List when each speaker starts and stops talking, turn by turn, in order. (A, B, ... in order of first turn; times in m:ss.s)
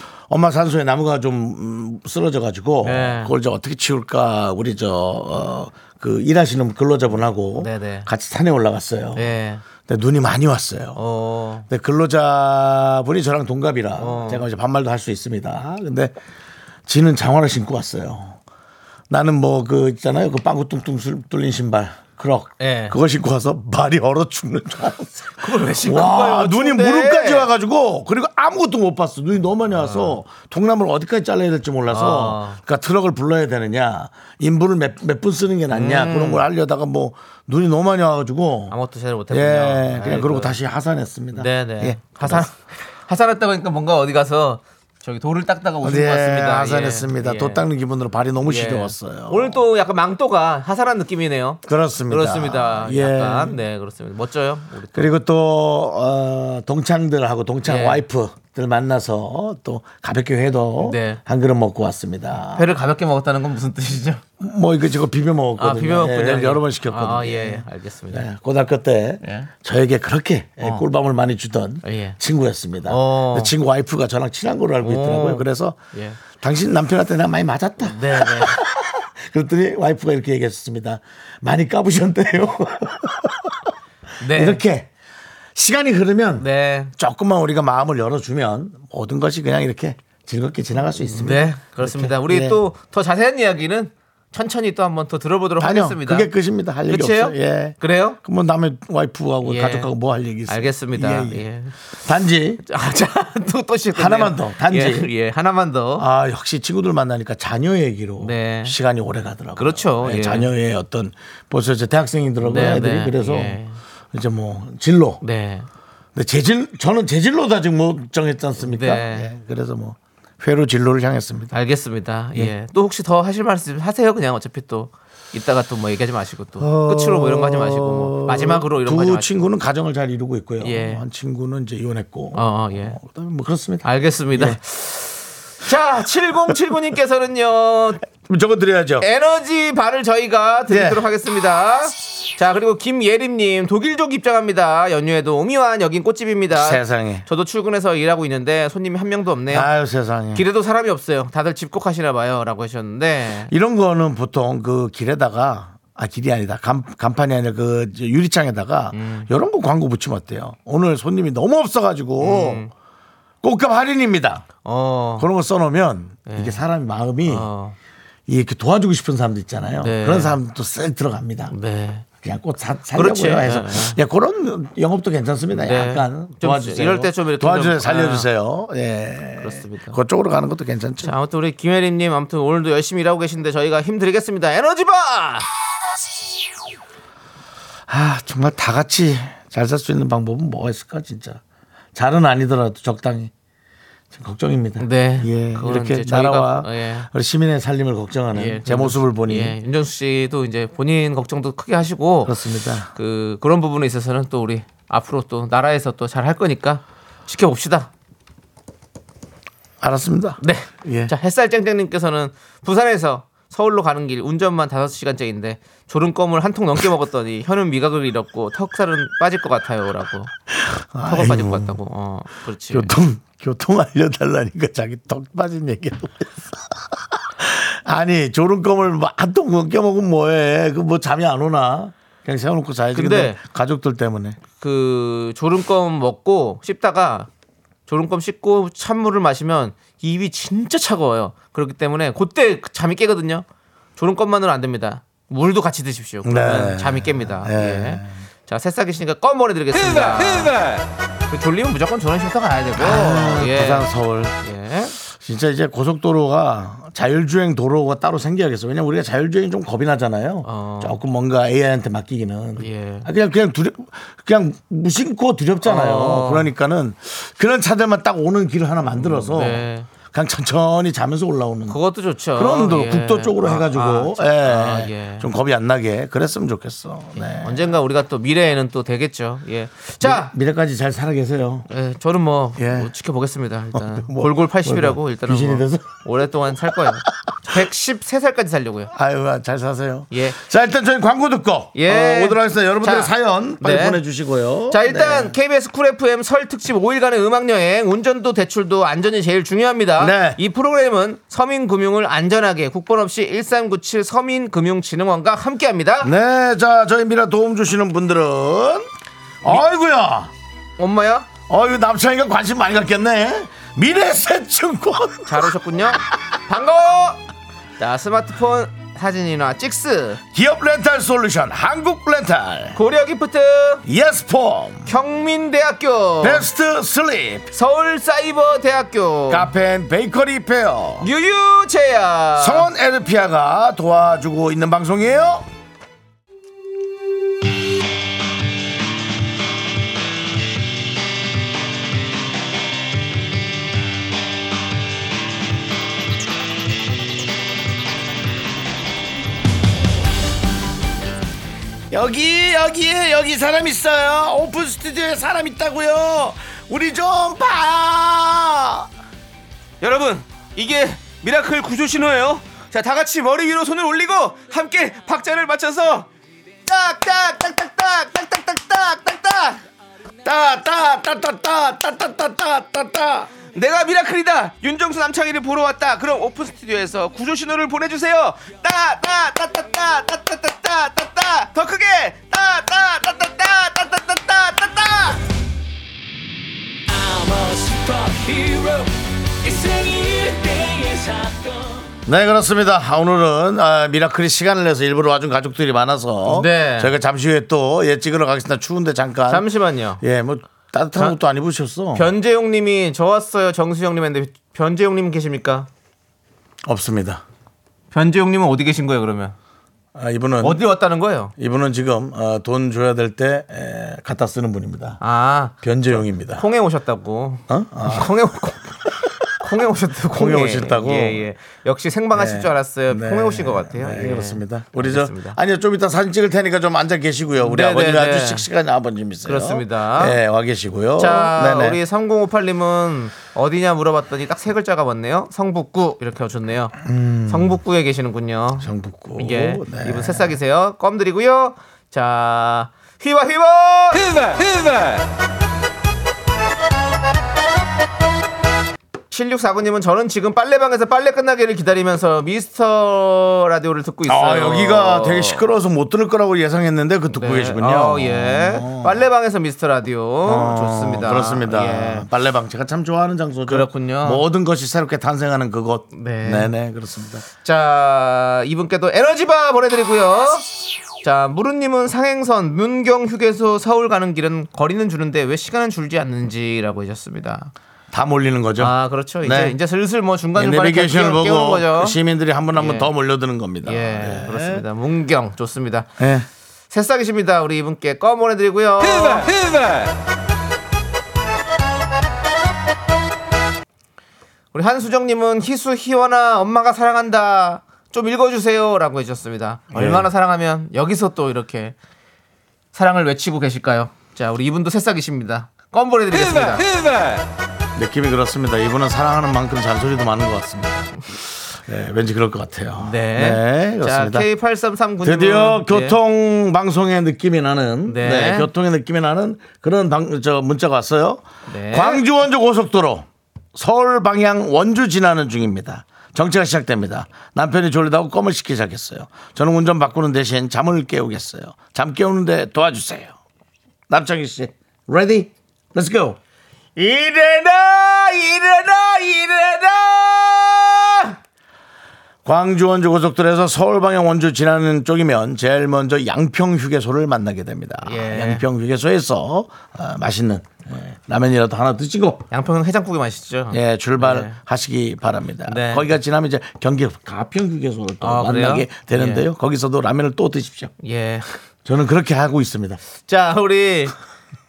0:00.3-0:09.3 A
0:02.8-0:03.3 B
0:07.6-0:08.1 B
0:09.2-0:09.6 B
0:09.9-0:11.0 A
0:11.0-0:11.7 B
0:11.7-0:16.1 A
0:14.0-0:14.4 B
0:16.9-0:18.4 A
0:19.1-0:38.7 A
0:22.6-0:23.0 B
0:25.4-0:27.5 B
0:29.7-0:30.2 B
0:31.9-0:32.6 B
0:35.7-0:36.4 B
0:38.7-0:40.6 B
0:39.3-0:42.5 A
0:41.3-0:47.6 B
0:45.8-0:49.6 A
0:48.4-0:55.1 B
0:51.6-0:53.6 A
0:54.9-1:02.7 A
0:57.6-0:58.0 B
1:00.8-1:01.2 B
1:02.5-1:04.2 B
1:04.4-1:15.8 A
1:05.6-1:08.2 B
1:09.2-1:09.5 B
1:11.8-1:12.2 B
1:12.8-1:13.5 B
1:14.8-1:16.2 B
1:16.4-1:23.6 A
1:17.8-1:18.6 B
1:24.2-1:24.6 B
1:24.3-1:24.9 A
1:25.5-1:32.6 A
1:26.4-1:26.9 B
1:31.0-1:36.3 B
1:35.6-1:41.4 A
1:36.9-1:38.2 B
1:39.4-1:39.9 B
1:40.5-1:41.7 B
1:42.0-1:42.6 A
1:42.6-1:46.0 B
1:43.9-1:45.1 A
1:46.0-1:53.6 A
1:48.2-1:48.8 B
1:49.6-1:50.5 B
1:52.4-1:53.8 B
1:54.1-1:55.2 A
1:55.2-1:55.7 B
1:56.1-2:01.5 A
1:58.6-1:59.3 B
2:01.5-2:09.3 B
2:06.6-2:14.6 A
2:10.6-2:11.0 B
2:12.3-2:13.0 B
2:13.8-2:18.0 B
2:18.2-2:19.0 A
2:19.0-2:29.7 B
2:20.7-2:21.0 A
2:26.5-2:27.2 A
2:29.5-2:30.4 A
2:30.3-2:33.5 B
2:33.5-2:42.6 A
2:38.9-2:39.3 B
2:42.2-2:42.7 B
2:43.4-2:44.5 A
2:44.6-2:45.3 B
2:45.2-2:47.5 A
2:46.3-2:46.6 B
2:47.3-2:47.8 B
2:48.3-2:51.5 A
2:49.8-2:50.4 B
2:51.5-2:52.0 B
2:52.2-3:01.1 A
2:53.0-2:54.0 B
2:55.5-2:58.3 B
2:59.4-3:00.0 B
3:01.0-3:05.5 B
3:07.9-3:11.4 A
3:11.9-3:13.3 A
3:14.1-3:19.5 A
3:14.8-3:17.1 B
3:18.3-3:22.4 B
3:22.2-3:22.9 A
3:22.9-3:27.9 B
3:29.8-3:31.1 A
3:30.4-3:40.3 B
3:40.5-3:41.8 A
3:41.0-3:42.9 B
3:42.7-3:54.4 A
3:52.9-3:53.4 B
3:54.6-3:57.3 B
3:57.9-4:03.4 B
4:04.0-4:10.7 B
4:06.2-4:08.2 A
4:11.3-4:13.9 B
4:12.8-4:14.4 A
4:14.4-4:15.0 B
4:15.1-4:31.8 A
4:20.4-4:21.0 B
4:22.6-4:23.1 B
4:25.6-4:26.5 B
4:29.0-4:29.9 B
4:31.7-4:35.3 B
4:32.3-4:37.7 A
4:37.2-4:40.3 B
4:40.0-4:41.7 A
4:41.7-4:48.9 B
4:42.6-4:42.9 A
4:43.7-4:45.9 A
4:48.9-4:55.3 A
4:50.1-4:50.4 B
4:51.7-4:54.0 B
4:54.7-5:06.1 B
5:00.0-5:00.4 A
5:06.0-5:08.9 A
5:09.4-5:10.3 A
5:10.8-5:11.3 B
5:11.5-5:15.5 A
5:15.3-5:17.2 B
5:17.8-5:20.2 B
5:20.3-5:22.8 A
5:22.7-5:23.8 B
5:23.8-5:24.9 A
5:24.8-5:26.4 B
5:26.2-5:27.5 A
5:27.5-5:29.5 B
5:29.3-5:31.1 A
5:31.0-5:32.7 B
5:32.4-5:35.4 A
5:51.9-5:58.9 A
5:59.8-6:06.1 B
6:06.7-6:09.6 B
6:10.2-6:13.3 A
6:13.5-6:25.2 B
6:27.1-6:28.9 B
6:29.4-6:31.7 B
6:32.0-6:39.4 A
6:36.3-6:36.9 B
6:39.3-6:40.0 B
6:40.0-6:42.1 A
6:41.9-6:45.7 B
6:46.6-6:47.2 A
6:47.9-6:49.4 B
6:49.9-6:50.6 A
6:50.4-6:51.3 B
6:51.4-6:55.0 A
6:55.0-6:58.8 B
6:55.6-6:56.4 A
6:57.5-6:58.1 A
6:59.0-6:59.3 A
6:59.4-7:05.4 B
7:00.1-7:01.2 A
7:02.1-7:11.8 A
7:07.4-7:08.4 B
7:09.2-7:10.2 B
7:11.0-7:16.8 B
7:16.8-7:17.6 A
7:17.3-7:24.5 B
7:18.6-7:20.3 A
7:29.1-7:35.4 B
7:34.0-7:39.0 A
7:37.1-7:42.1 B
7:40.2-7:47.2 A
7:43.5-7:44.2 B
7:45.9-7:46.5 B
7:47.4-7:50.4 B
7:51.0-7:57.5 B
7:57.9-7:59.6 A
7:58.6-8:02.0 B
8:00.4-8:04.6 A
8:02.6-8:02.9 B
8:03.6-8:05.9 B
8:06.0-8:06.3 A
8:06.7-8:09.5 B
8:14.5-8:21.7 B
8:19.7-8:20.1 A
8:22.7-8:26.7 B
8:27.7-8:34.3 A
8:32.8-8:36.0 B
8:35.0-8:53.1 A
8:37.9-8:38.5 B
8:41.5-8:42.0 B
8:53.9-8:56.2 A
8:56.8-9:01.2 B
9:02.2-9:12.2 A
9:07.8-9:08.4 B
9:12.3-9:14.4 B
9:13.5-9:20.7 A
9:15.5-9:15.9 B
9:18.0-9:19.3 B
9:20.8-9:21.3 B
9:21.6-9:22.8 A
9:23.0-9:23.9 B